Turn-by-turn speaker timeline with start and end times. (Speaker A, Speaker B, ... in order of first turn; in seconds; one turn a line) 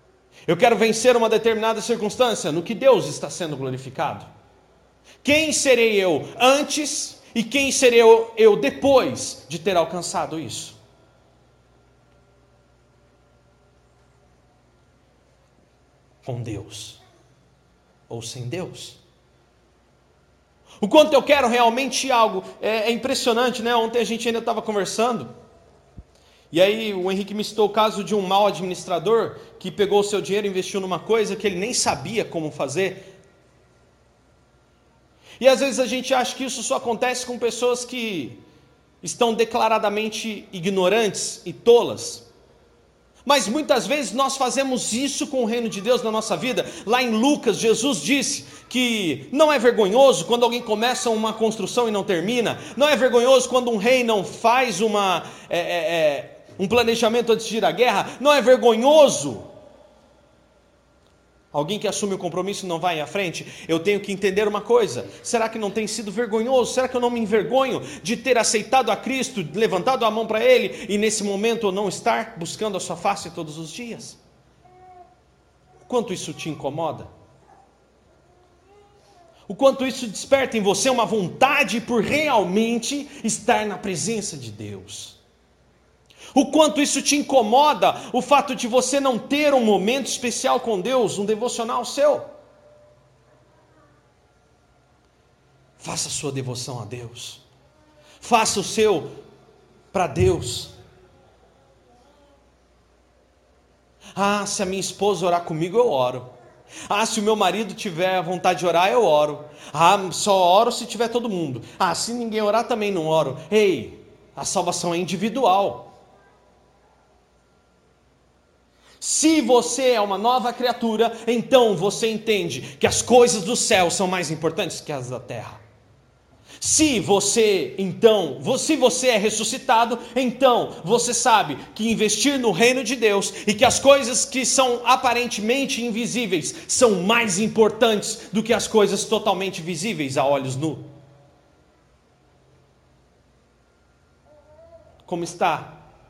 Speaker A: 0.5-4.3
Speaker A: 5.2-10.8
Speaker A: 16.2-17.0
Speaker A: 18.1-19.0
Speaker A: 20.8-25.3
Speaker A: 26.5-33.1
Speaker A: 35.4-38.4
Speaker A: 39.0-42.2
Speaker A: 43.2-59.5
Speaker A: 61.5-74.2
Speaker A: 75.8-77.1
Speaker A: 79.5-85.2
Speaker A: 86.3-92.3
Speaker A: 95.8-97.4
Speaker A: 98.2-99.1
Speaker A: 99.9-100.7
Speaker A: 104.1-106.3
Speaker A: 106.9-115.9
Speaker A: 119.0-125.6
Speaker A: 126.6-140.9
Speaker A: 145.0-145.8